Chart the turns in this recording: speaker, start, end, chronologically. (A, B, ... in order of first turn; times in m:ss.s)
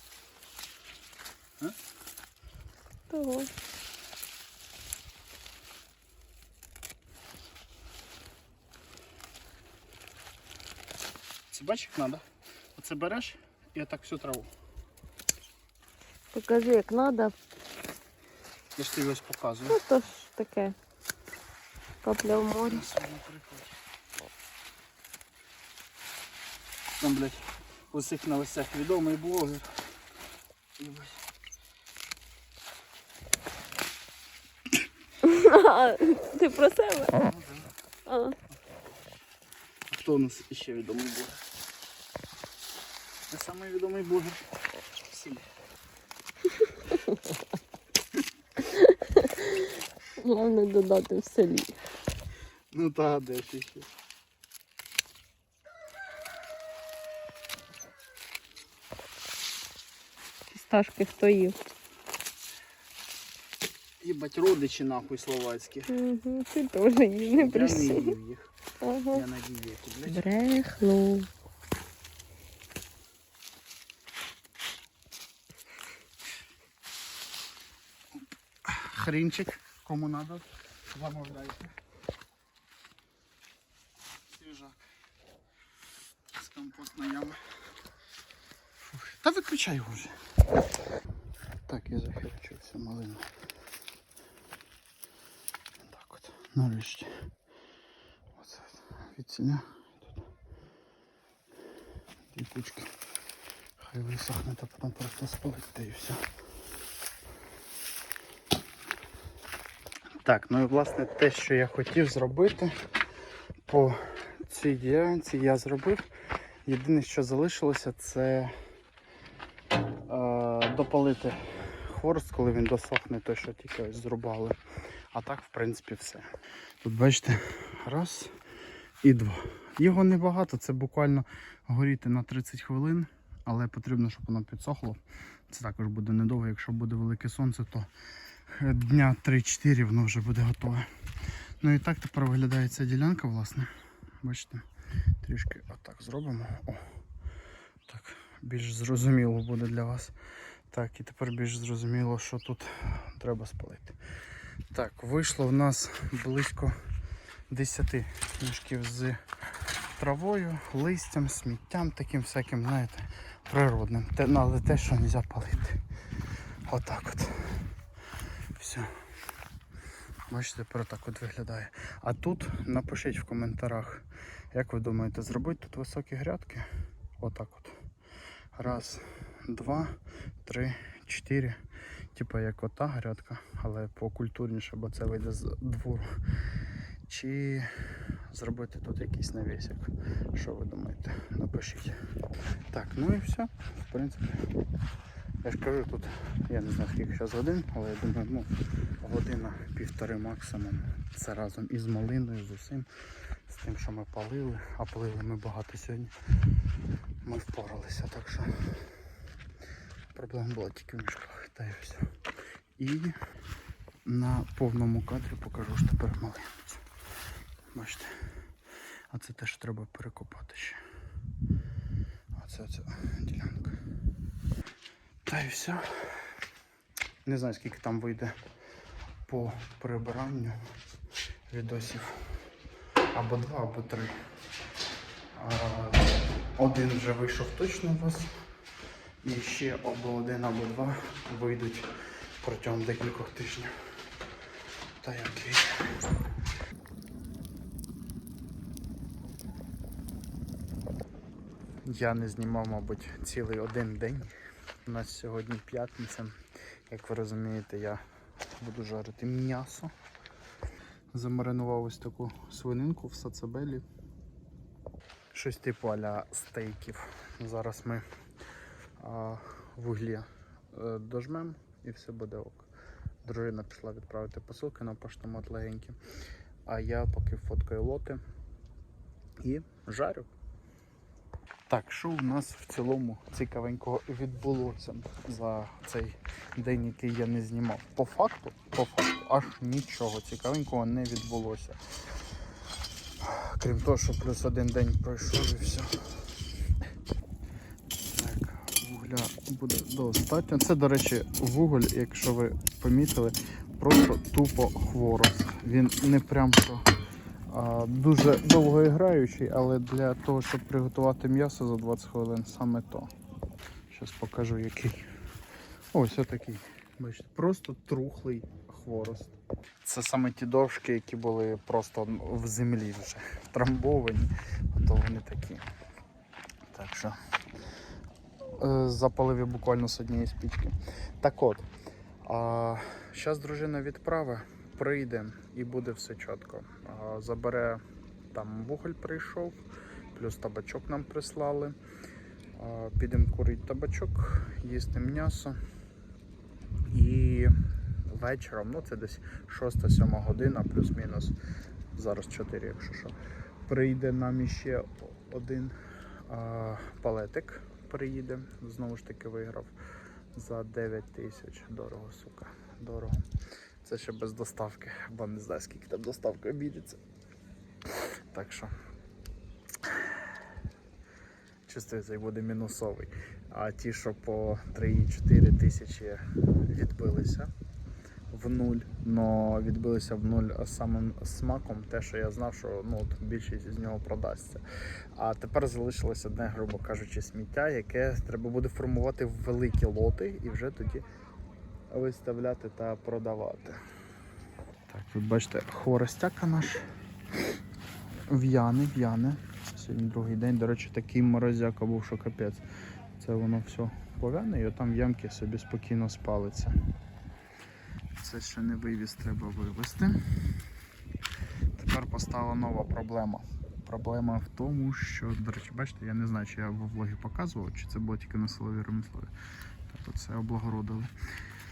0:03.1-0:03.5 A
0:11.5-0:12.2 B
0:12.8-0:14.5 B
0:16.3-0:17.4 A
0:18.8-0:19.8 B
0:19.7-0:20.8 A
0:22.0-0:22.9 A
0:22.6-0:23.8 B
0:27.0-0:29.8 B
0:30.8-0:31.2 B
0:35.2-0:37.2 A
0:37.2-0:37.7 B
0:38.1-0:38.4 A
0:39.9-0:41.4 B
0:43.3-0:44.4 B
0:45.1-0:45.4 B
0:48.6-0:51.8 A
0:52.7-0:53.9 B
1:00.5-1:01.6 A
1:04.0-1:05.9 B
1:05.9-1:08.1 A
1:07.4-1:08.5 B
1:08.8-1:09.2 A
1:09.1-1:10.3 B
1:10.1-1:11.3 A
1:18.2-1:21.7 B
1:24.3-1:24.8 B
1:26.4-1:27.4 B
1:28.8-1:30.2 B
1:31.7-1:33.3 B
1:35.9-1:37.2 B
1:38.4-1:40.1 B
1:42.3-1:42.9 B
1:43.8-1:46.2 B
1:50.2-1:52.8 B
1:53.7-1:56.1 B
1:56.6-1:58.5 B
2:00.1-2:04.6 B
2:05.1-2:06.3 B
2:06.8-2:08.3 B
2:09.0-2:15.0 B
2:15.5-2:17.9 B
2:18.6-2:20.9 B
2:21.6-2:23.7 B
2:24.2-2:24.6 B
2:25.2-2:26.8 B
2:27.9-2:30.1 B
2:30.7-2:34.0 B
2:34.7-2:36.8 B
2:37.5-2:39.2 B
2:40.0-2:45.8 B
2:46.7-2:47.6 B
2:48.6-2:48.9 B
2:50.3-2:56.7 B
2:57.2-2:57.8 B
2:58.6-3:01.6 B
3:02.2-3:06.1 B
3:07.1-3:07.7 B
3:08.3-3:12.0 B
3:12.7-3:14.5 B
3:15.4-3:22.9 B
3:23.5-3:26.1 B
3:27.2-3:28.7 B
3:30.2-3:32.1 B
3:32.8-3:33.2 B
3:34.0-3:36.8 B
3:37.7-3:38.1 B
3:39.1-3:40.8 B
3:42.4-3:43.8 B
3:45.3-3:46.3 B
3:47.2-3:48.4 B
3:49.3-3:50.6 B
3:51.5-3:52.3 B
3:53.1-3:54.1 B
3:55.4-3:58.3 B
3:59.2-4:01.9 B
4:02.4-4:03.7 B
4:05.0-4:05.9 B
4:11.8-4:14.3 B
4:14.9-4:16.4 B
4:16.9-4:18.0 B
4:18.6-4:19.9 B
4:21.1-4:23.8 B
4:25.3-4:28.0 B
4:29.0-4:32.7 B
4:33.2-4:36.0 B
4:36.7-4:38.2 B
4:39.4-4:40.3 B
4:41.7-4:51.8 B
4:53.2-4:56.2 B
4:58.0-5:06.8 B
5:07.5-5:13.1 B
5:13.9-5:15.1 B
5:15.9-5:25.6 B
5:26.7-5:27.2 B
5:28.6-5:31.7 B
5:32.2-5:37.8 B
5:38.3-5:39.6 B
5:40.1-5:41.8 B
5:42.6-5:45.6 B
5:46.9-5:47.5 B
5:48.1-5:51.4 B
5:52.0-5:55.8 B
5:56.3-5:59.7 B
6:00.4-6:03.2 B
6:03.8-6:07.0 B
6:07.9-6:08.7 B
6:11.7-6:17.5 B
6:18.3-6:24.6 B
6:25.2-6:31.0 B
6:31.9-6:33.8 B
6:34.9-6:36.8 B
6:38.3-6:42.6 B
6:43.2-6:46.8 B
6:48.2-6:50.2 B
6:51.8-6:59.3 B
6:59.9-7:01.1 B